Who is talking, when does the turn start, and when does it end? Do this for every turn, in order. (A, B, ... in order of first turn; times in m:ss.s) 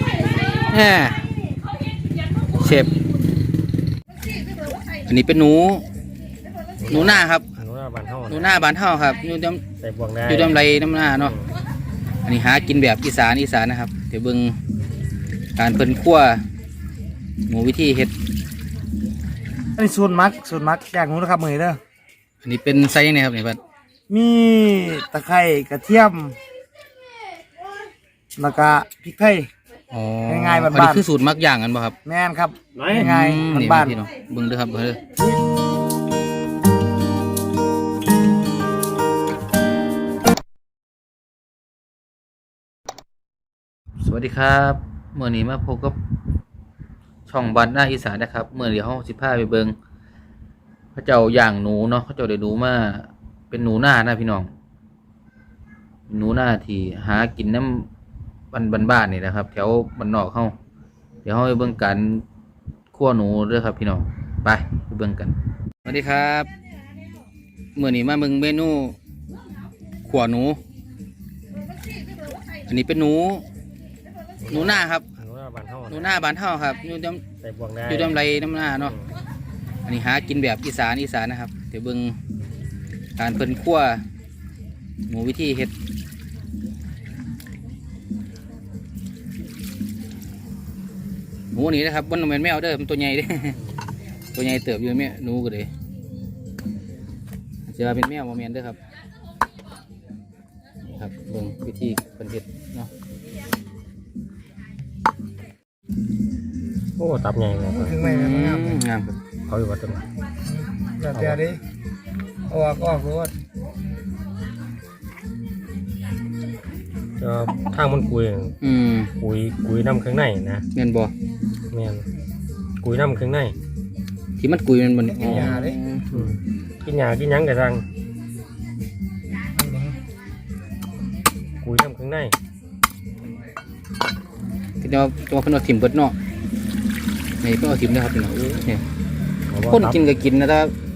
0:00.4-0:01.2 A
0:02.5-0:02.9 A
0:05.1-0:05.8 A
0:06.8-0:08.5 B
0:06.9-0:07.5 A
0:08.3-0:09.6 A
0:09.8-0:10.6 B
0:10.3-0:11.3 A
0:11.2-0:11.5 B
0:12.2-0:14.6 A
0:15.6-0:16.4 A
0:17.5-0:18.1 A
0:19.8-0:21.8 C
0:22.4-0:23.6 A
0:24.1-0:26.4 C
0:28.4-0:29.5 C
0:29.9-0:32.0 A
0:30.3-0:31.0 C
0:32.0-0:34.0 C
0:32.9-0:35.0 A
0:44.0-0:46.0 A
0:47.3-0:49.7 A
0:51.0-0:54.5 A
0:56.1-0:57.9 A
0:58.5-1:00.5 A
1:01.2-1:02.2 A
1:02.9-1:06.5 A
1:07.8-1:09.0 A
1:10.1-1:10.6 A
1:12.7-1:13.4 A
1:14.4-1:16.2 B
1:14.5-1:15.0 A
1:15.9-1:17.2 A
1:17.4-1:18.2 B
1:17.9-1:19.0 A
1:19.8-1:22.2 A
1:23.2-1:24.0 A
1:25.1-1:25.7 A
1:31.5-1:33.6 A
1:34.3-1:35.7 A
1:37.7-1:38.8 A
1:40.9-1:42.9 A
1:47.0-1:48.0 B
1:47.7-1:48.8 C
1:48.0-1:49.2 A
1:49.5-1:50.0 B
1:50.5-1:51.6 C
1:51.1-1:51.4 B
1:52.5-1:53.3 C
1:57.2-1:58.6 B
1:58.6-1:59.1 A
1:59.2-2:00.6 B
2:00.7-2:01.1 A
2:01.7-2:02.0 B
2:02.8-2:03.5 B
2:04.4-2:06.2 A
2:05.2-2:05.6 B
2:05.4-2:05.8 C
2:06.8-2:07.8 B
2:09.6-2:10.0 C
2:11.6-2:12.3 B
2:14.8-2:16.2 A
2:17.4-2:18.8 A
2:19.5-2:20.0 B
2:19.7-2:20.7 A